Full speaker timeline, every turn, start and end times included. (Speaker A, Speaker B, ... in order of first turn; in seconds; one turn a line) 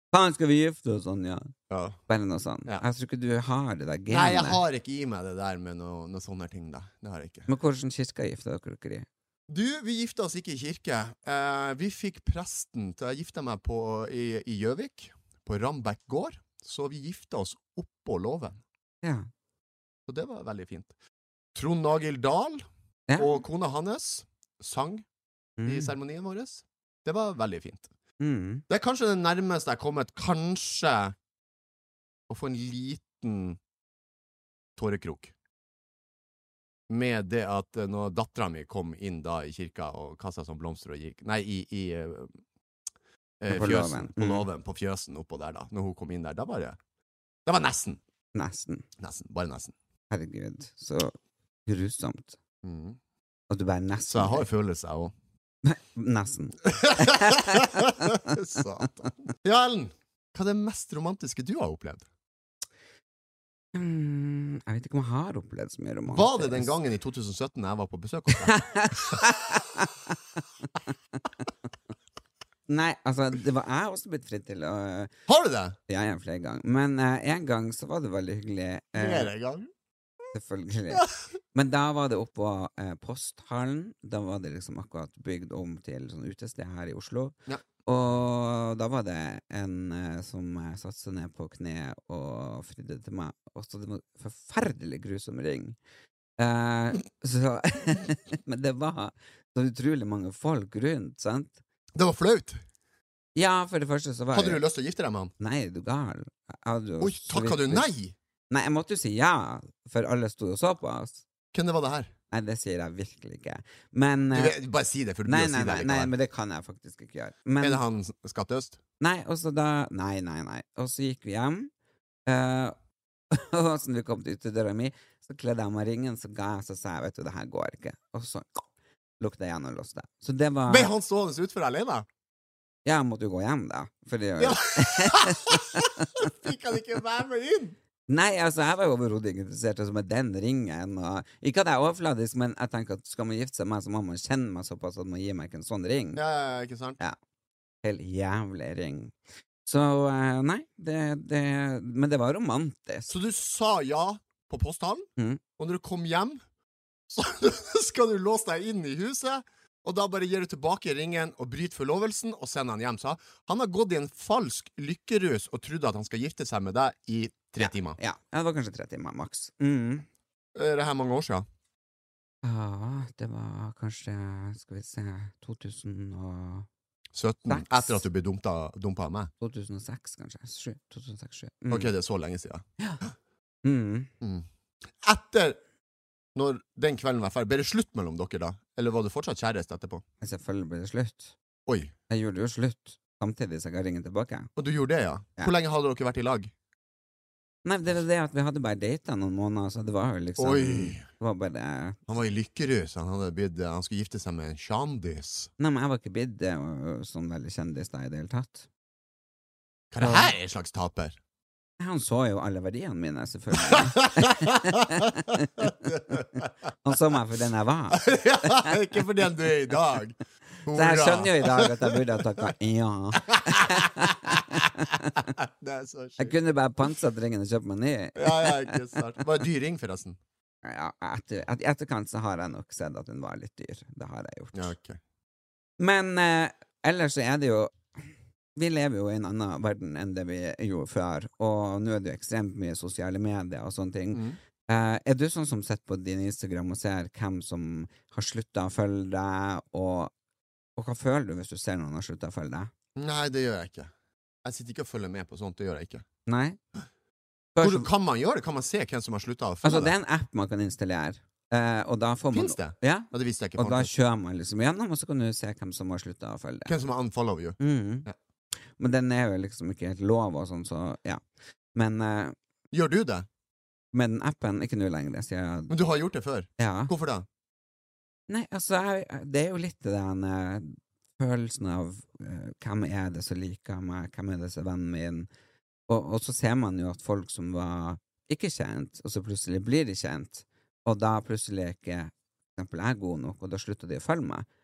Speaker A: 0.1-1.5
Speaker B: 1.7-2.0
Speaker A: 2.1-4.6
Speaker B: 4.1-7.5
Speaker A: 7.5-9.1
Speaker B: 9.5-18.6
Speaker A: 19.0-19.3
Speaker B: 20.1-20.9
Speaker B: 21.5-25.1
Speaker A: 23.1-23.4
Speaker A: 25.6-25.9
Speaker B: 25.6-27.9
Speaker A: 28.2-28.6
Speaker B: 28.7-31.1
Speaker B: 32.3-33.6
Speaker B: 34.8-35.3
Speaker B: 36.9-42.4
Speaker B: 43.4-46.8
Speaker A: 43.5-44.5
Speaker B: 47.5-48.0
Speaker A: 48.3-48.9
Speaker B: 49.0-49.7
Speaker A: 50.1-51.1
Speaker A: 51.6-52.4
Speaker B: 52.6-53.0
Speaker A: 53.5-54.5
Speaker B: 54.1-55.1
Speaker A: 55.6-58.2
Speaker B: 56.7-62.0
Speaker A: 63.7-66.7
Speaker B: 66.1-69.2
Speaker A: 68.3-70.2
Speaker A: 72.7-75.1
Speaker B: 75.3-75.8
Speaker A: 75.9-79.3
Speaker B: 78.9-79.7
Speaker A: 80.3-95.8
Speaker A: 96.4-101.6
Speaker B: 101.9-102.6
Speaker A: 103.3-104.6
Speaker B: 104.3-105.3
Speaker A: 105.4-107.9
Speaker B: 107.0-108.1
Speaker A: 108.5-111.2
Speaker B: 111.5-112.1
Speaker A: 112.3-114.6
Speaker B: 114.3-116.1
Speaker A: 115.2-117.8
Speaker B: 117.6-118.8
Speaker A: 119.0-121.7
Speaker A: 122.3-122.8
Speaker A: 123.3-128.6
Speaker A: 129.2-130.9
Speaker B: 130.7-132.1
Speaker A: 132.8-136.3
Speaker B: 134.4-137.8
Speaker A: 138.1-146.2
Speaker B: 146.1-147.0
Speaker A: 147.8-153.1
Speaker B: 153.1-156.4
Speaker B: 157.1-168.0
Speaker A: 167.6-170.1
Speaker B: 170.5-171.4
Speaker A: 172.4-176.7
Speaker B: 177.1-179.3
Speaker A: 177.5-178.0
Speaker A: 179.4-181.9
Speaker B: 181.7-182.6
Speaker A: 183.6-184.1
Speaker B: 184.2-184.4
Speaker B: 185.0-185.6
Speaker B: 186.3-190.0
Speaker A: 190.2-191.3
Speaker B: 191.7-191.9
Speaker A: 192.1-194.5
Speaker B: 194.6-196.5
Speaker A: 197.6-202.0
Speaker B: 200.4-201.0
Speaker B: 202.1-205.5
Speaker A: 205.6-208.7
Speaker B: 209.9-211.2
Speaker A: 210.0-210.3
Speaker A: 211.8-218.7
Speaker B: 213.6-216.5
Speaker B: 217.9-222.0
Speaker A: 220.7-225.3
Speaker B: 223.2-224.1
Speaker B: 225.3-226.3
Speaker A: 226.2-228.9
Speaker B: 228.2-230.2
Speaker A: 230.6-234.7
Speaker B: 234.5-235.0
Speaker A: 235.8-238.0
Speaker A: 238.6-250.1
Speaker B: 244.1-244.4
Speaker A: 250.8-252.7
Speaker B: 252.9-253.9
Speaker B: 254.4-256.0
Speaker A: 256.3-256.6
Speaker A: 257.6-257.9
Speaker B: 257.6-259.9
Speaker A: 259.6-266.7
Speaker B: 262.3-263.9
Speaker B: 266.7-268.1
Speaker A: 267.6-268.1
Speaker A: 268.8-271.2
Speaker A: 271.7-272.4
Speaker B: 272.7-273.3
Speaker A: 273.9-275.7
Speaker B: 275.7-277.2
Speaker A: 276.6-276.9
Speaker A: 278.3-285.3
Speaker A: 285.9-294.4